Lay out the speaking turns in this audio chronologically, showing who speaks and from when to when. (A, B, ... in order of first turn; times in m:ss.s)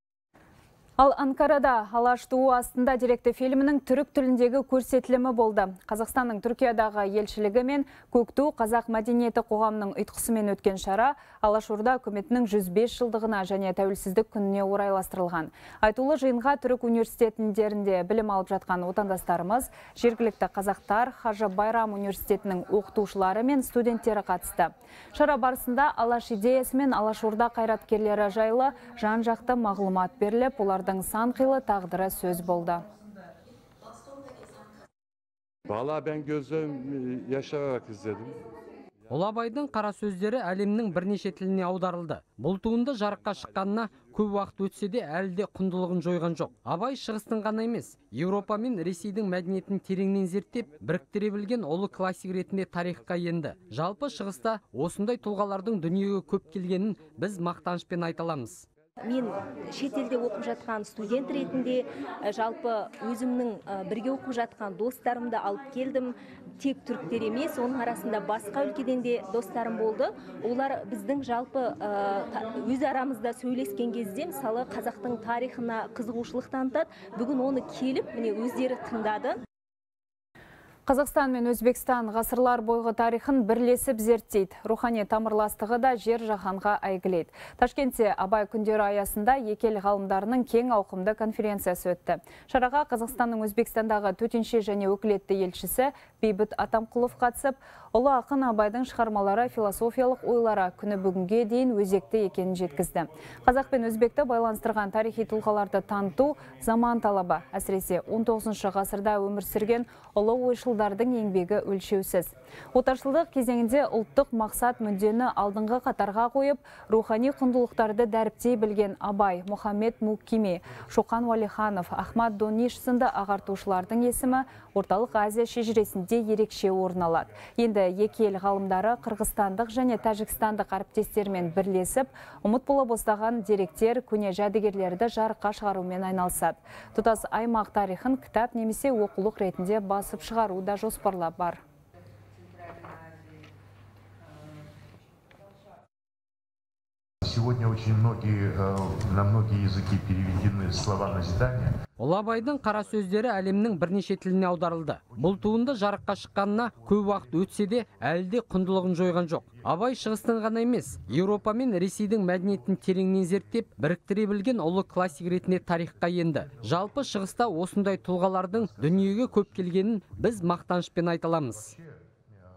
0:01.0-0:32.8 A
0:35.7-0:38.4 B
0:39.1-0:58.6 C
0:59.0-1:19.4 D
1:20.8-2:21.6 A
2:27.7-2:28.3 E
2:28.8-2:29.1 E
2:29.7-2:31.7 E
2:32.0-2:51.7 C